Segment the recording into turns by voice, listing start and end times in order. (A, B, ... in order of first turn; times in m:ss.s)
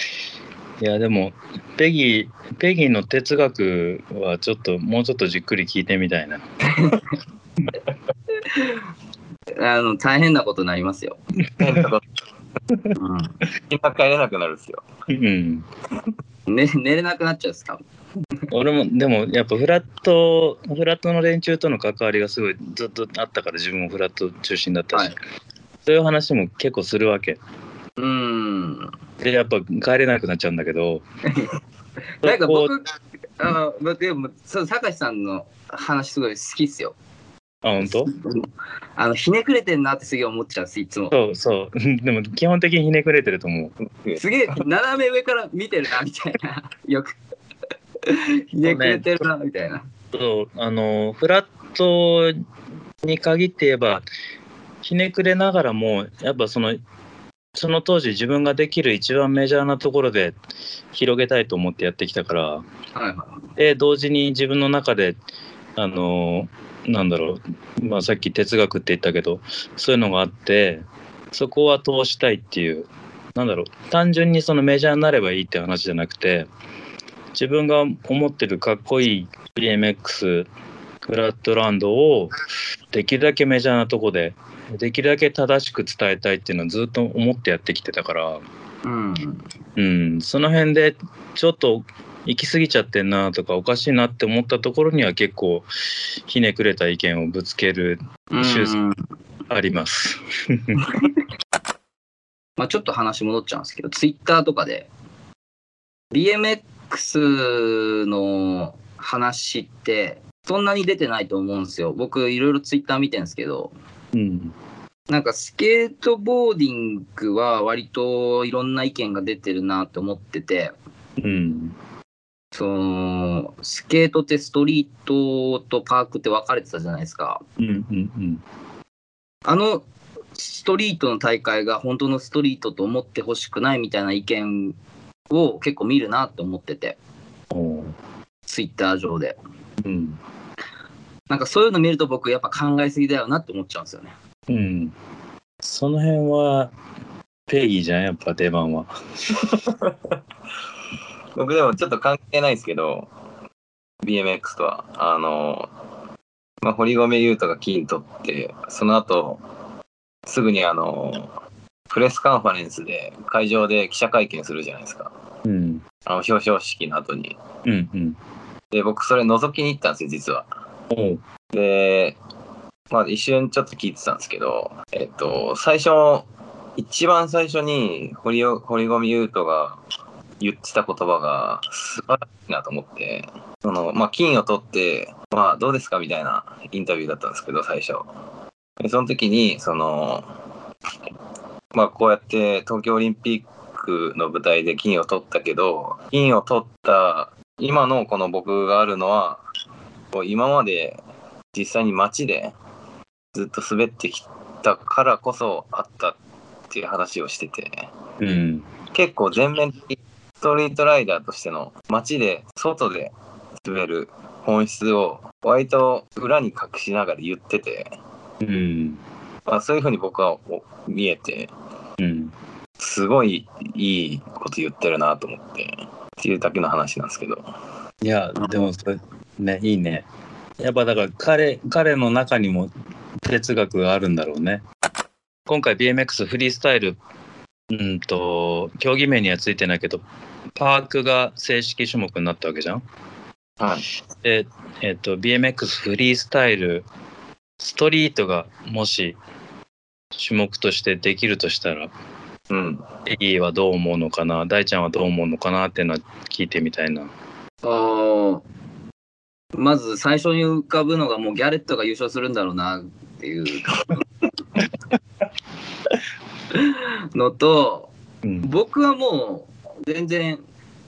0:00.8-0:06.4 A
0:06.7-0:07.0 B
0:08.4-0:08.8 B
0:09.6-0:11.2 B
0:11.6-0:12.0 C
0:12.9-0:13.4 B
0:13.7-0:14.8 C
0:15.1-0:15.6 A
0:16.5-0:17.8 B
0:18.5-0:25.1 A
0:25.8-0:27.4 A
0:28.0-0:28.9 B
0:29.2-0:31.0 A
0:31.3-0:31.6 B
0:32.2-0:32.8 B
0:32.2-0:32.7 A
0:33.4-0:37.0 B
0:37.6-0:38.1 A
0:37.8-0:41.1 B
0:41.1-0:43.7 A
0:43.8-0:44.6 C
0:44.2-0:47.1 B
0:48.0-0:49.8 B
0:48.6-0:49.2 A
0:50.1-0:52.4 A
0:53.0-0:54.0 A
0:54.8-0:56.8 A
0:57.5-1:00.4 A
1:00.9-1:02.6 A
1:02.9-1:03.4 B
1:03.6-1:05.2 A
1:05.8-1:16.5 A
1:17.3-1:20.5 A
1:21.0-1:22.3 A
1:22.9-1:28.4 A
1:28.8-1:29.4 B
1:29.8-1:38.8 A
1:38.3-1:39.0 B
1:39.5-1:40.8 A
1:42.6-1:44.9 B
1:46.1-1:53.7 B
1:54.1-1:54.5 A
1:55.1-2:00.7 B
2:01.2-2:01.7 A
2:02.5-2:07.4 B
2:07.6-2:08.4 A
2:09.4-2:14.8 B
2:15.3-2:17.0 B
2:17.5-2:17.9 A
2:18.5-2:19.4 B
2:19.8-2:20.2 A
2:21.3-2:24.1 B
2:24.5-2:24.9 A
2:25.6-2:26.7 A
2:27.5-2:28.9 A
2:29.4-2:30.2 C
2:31.3-2:33.1 C
2:34.0-2:35.7 C
2:36.6-2:39.4 C
2:40.2-2:41.3 C
2:41.9-2:45.1 C
2:45.4-2:45.8 A
2:46.0-2:47.4 C
2:47.6-2:48.2 A
2:48.7-2:50.5 C
2:50.9-2:51.2 A
2:51.5-2:52.2 C
2:52.9-2:59.8 C
3:00.4-3:08.1 C
3:08.8-3:10.3 C
3:11.7-3:19.4 C
3:20.1-3:21.0 C
3:21.5-3:22.6 C
3:23.3-3:26.2 C
3:26.7-3:27.9 C
3:28.2-3:28.6 A
3:28.9-3:37.9 C
3:38.4-3:39.0 A
3:39.4-3:41.5 C
3:42.0-3:42.3 A
3:42.8-3:47.5 C
3:48.0-3:50.0 A
3:48.4-3:48.7 B
3:50.6-3:52.7 A
3:53.2-3:54.6 A
3:55.5-3:57.0 A
3:57.7-4:00.0 A
4:00.6-4:02.8 A
4:03.6-4:03.9 C
4:04.2-4:06.8 A
4:07.6-4:09.2 A
4:10.2-4:11.9 A
4:12.5-4:12.8 C
4:13.0-4:17.1 A
4:17.6-4:18.4 B
4:19.5-4:24.0 B
4:26.5-4:27.9 B
4:28.4-4:30.4 B